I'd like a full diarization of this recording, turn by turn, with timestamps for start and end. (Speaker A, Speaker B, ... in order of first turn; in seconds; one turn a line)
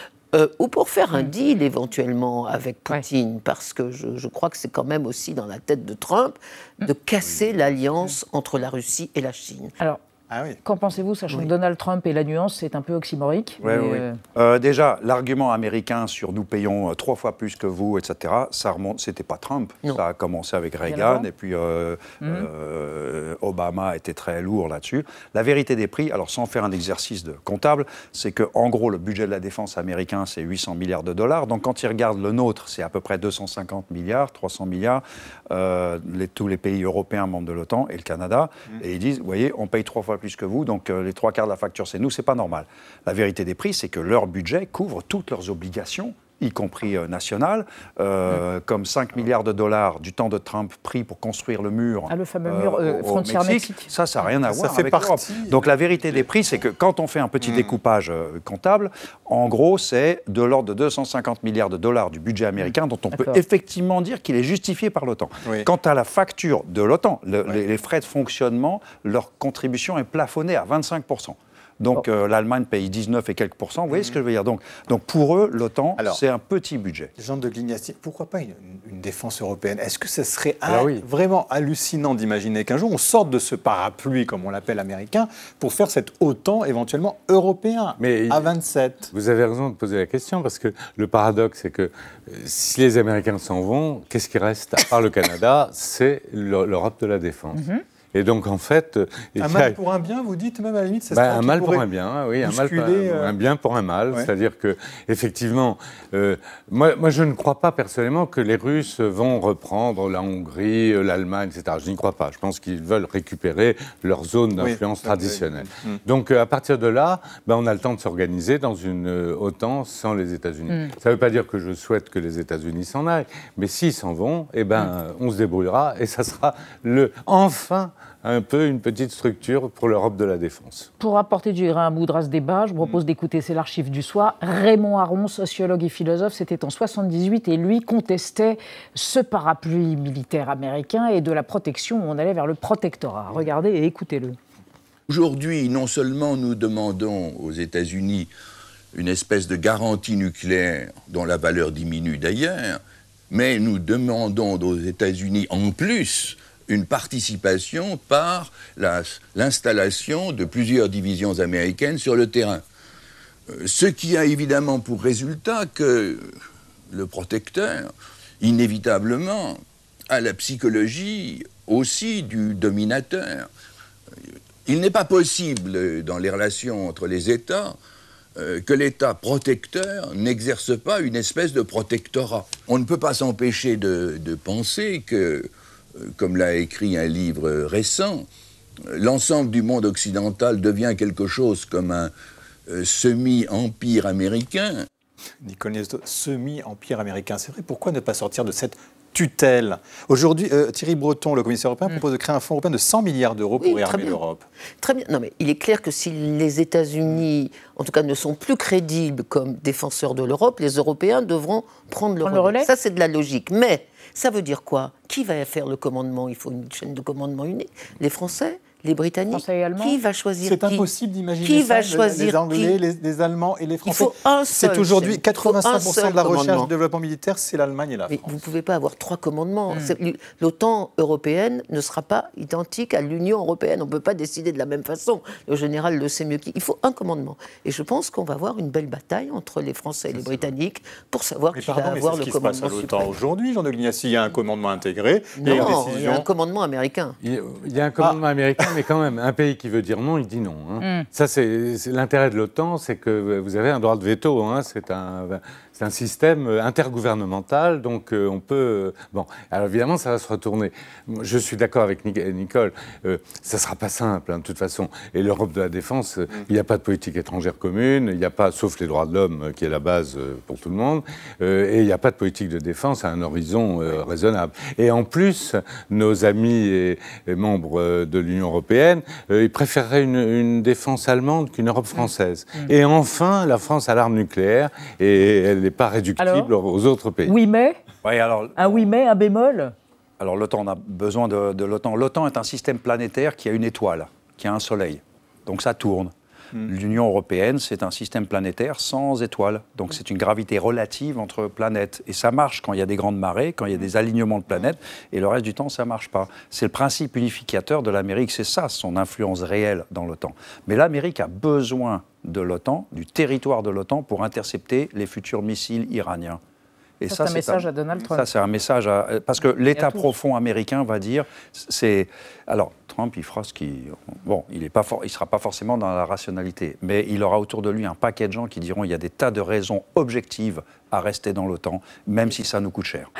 Speaker A: 0.3-9.7
Speaker B: 10.3-10.6
Speaker C: 10.6-14.2
Speaker D: 13.6-77.1
Speaker C: 20.8-21.3
Speaker C: 22.2-22.5
Speaker C: 52.1-53.9
Speaker B: 54.4-56.2
Speaker B: 57.4-57.7
Speaker C: 63.1-63.4
Speaker B: 77.2-89.1
Speaker E: 80.7-81.0
Speaker E: 88.0-88.5
Speaker E: 89.1-99.8
Speaker C: 97.5-97.8
Speaker B: 99.4-101.8
Speaker E: 101.1-130.9
Speaker B: 102.4-103.4
Speaker B: 114.6-116.0
Speaker C: 131.0-144.4
Speaker F: 145.1-148.3
Speaker F: 148.9-162.6
Speaker F: 163.5-166.3
Speaker F: 166.9-173.5
Speaker F: 174.6-177.8
Speaker F: 178.3-188.3
Speaker F: 188.9-192.1
Speaker F: 192.7-194.8
Speaker B: 195.4-204.4
Speaker A: 203.6-204.2
Speaker A: 204.8-220.9
Speaker C: 212.2-212.7
Speaker C: 219.3-220.0
Speaker B: 220.4-228.5
Speaker A: 221.4-222.8
Speaker A: 223.8-226.7
Speaker A: 228.1-243.2
Speaker B: 240.1-240.5
Speaker B: 241.5-246.3
Speaker A: 245.4-247.2
Speaker E: 247.2-287.3
Speaker B: 248.0-248.7
Speaker C: 250.8-251.1
Speaker C: 286.2-286.5
Speaker C: 287.2-287.8
Speaker D: 288.0-288.9
Speaker C: 288.6-289.7
Speaker D: 290.2-296.1
Speaker D: 296.6-316.4
Speaker D: 317.0-333.1
Speaker C: 317.1-318.3
Speaker C: 319.7-320.1